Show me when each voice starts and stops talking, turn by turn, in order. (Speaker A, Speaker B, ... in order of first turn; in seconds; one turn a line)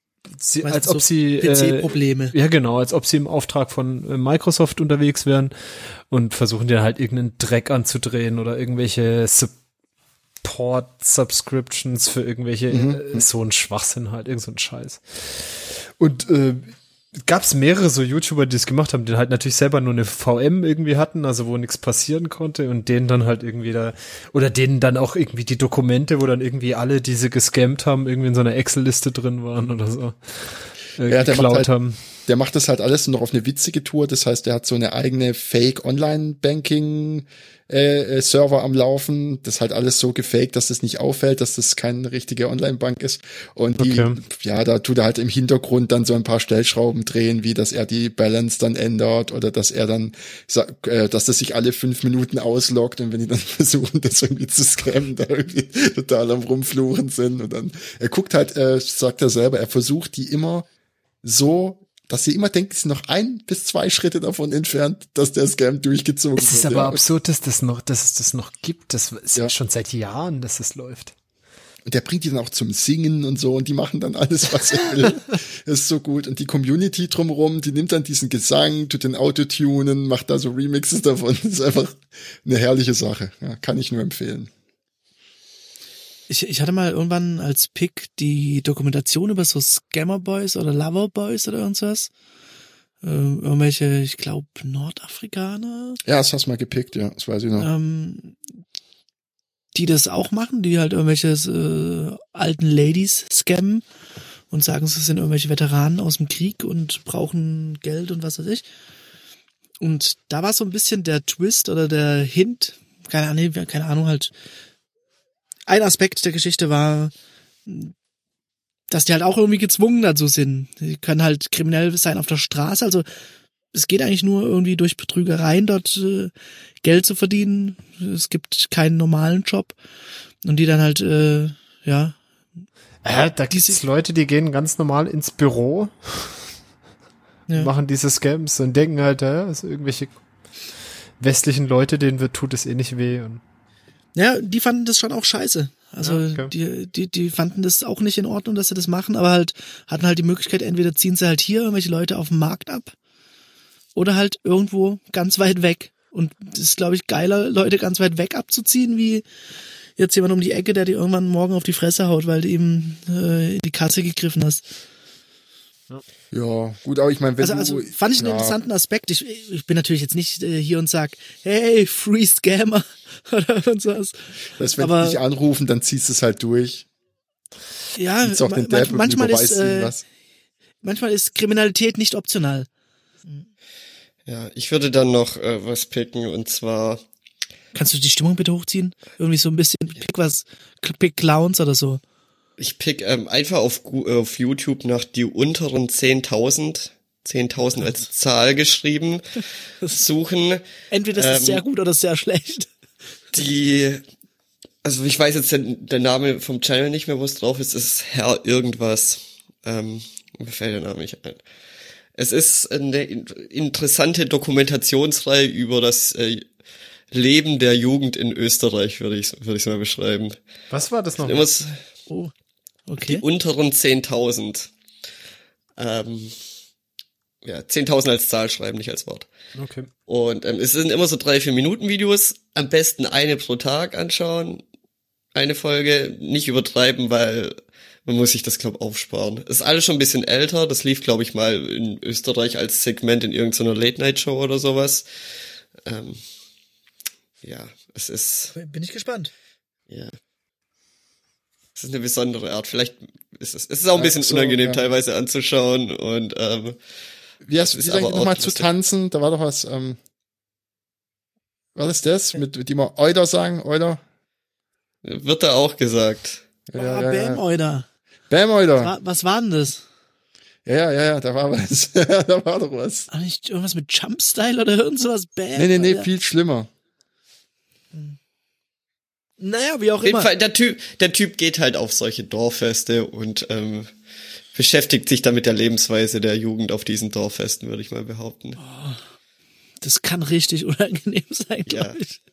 Speaker A: 0.4-5.5
Speaker B: 0.6-2.4
Speaker A: 6.1-9.6
Speaker A: 10.4-32.0
Speaker C: 12.7-13.3
Speaker C: 31.1-31.7
Speaker C: 32.3-60.7
Speaker A: 43.8-44.2
Speaker C: 61.2-67.0
Speaker A: 66.4-71.1
Speaker C: 71.9-84.5
Speaker B: 86.3-92.1
Speaker B: 93.0-96.0
Speaker C: 96.0-97.7
Speaker B: 97.6-98.4
Speaker B: 99.7-103.8
Speaker B: 104.5-108.7
Speaker B: 109.8-114.3
Speaker B: 115.7-117.1
Speaker B: 117.7-117.9
Speaker B: 118.9-123.1
Speaker B: 123.7-126.3
Speaker B: 126.8-129.8
Speaker B: 130.4-132.2
Speaker A: 133.0-136.4
Speaker B: 133.5-133.8
Speaker A: 137.6-140.2
Speaker A: 141.2-143.4
Speaker B: 144.2-152.9
Speaker A: 146.0-146.5
Speaker B: 153.9-159.2
Speaker B: 160.0-164.6
Speaker C: 166.3-168.6
Speaker B: 167.4-174.2
Speaker C: 174.6-176.9
Speaker B: 174.8-175.2
Speaker B: 178.0-179.9
Speaker C: 178.2-180.0
Speaker B: 180.8-182.7
Speaker D: 184.3-187.0
Speaker B: 187.8-192.0
Speaker D: 192.6-200.6
Speaker B: 200.9-202.7
Speaker D: 201.2-201.6
Speaker D: 203.3-204.0
Speaker D: 204.8-211.4
Speaker D: 212.2-216.5
Speaker D: 217.1-220.4
Speaker A: 220.7-221.5
Speaker D: 221.2-221.8
Speaker B: 222.9-223.2
Speaker D: 223.0-224.7
Speaker D: 225.8-226.4
Speaker D: 227.4-229.3
Speaker A: 229.6-229.9
Speaker D: 230.1-234.6
Speaker D: 235.3-245.1
Speaker D: 245.8-246.2
Speaker D: 247.4-248.5
Speaker B: 248.5-249.3
Speaker D: 249.9-250.1
Speaker D: 251.8-256.8
Speaker C: 253.9-254.8
Speaker C: 257.4-260.0
Speaker D: 257.6-258.7
Speaker C: 261.8-264.0
Speaker D: 265.0-266.4
Speaker C: 266.7-267.4
Speaker B: 266.8-267.9
Speaker C: 268.3-268.9
Speaker B: 268.8-269.8
Speaker C: 270.6-273.1
Speaker B: 273.1-276.1
Speaker C: 275.6-276.7
Speaker B: 279.4-280.3
Speaker D: 280.0-283.9
Speaker D: 284.5-288.6
Speaker B: 288.6-289.0
Speaker B: 289.8-292.2
Speaker D: 291.7-292.0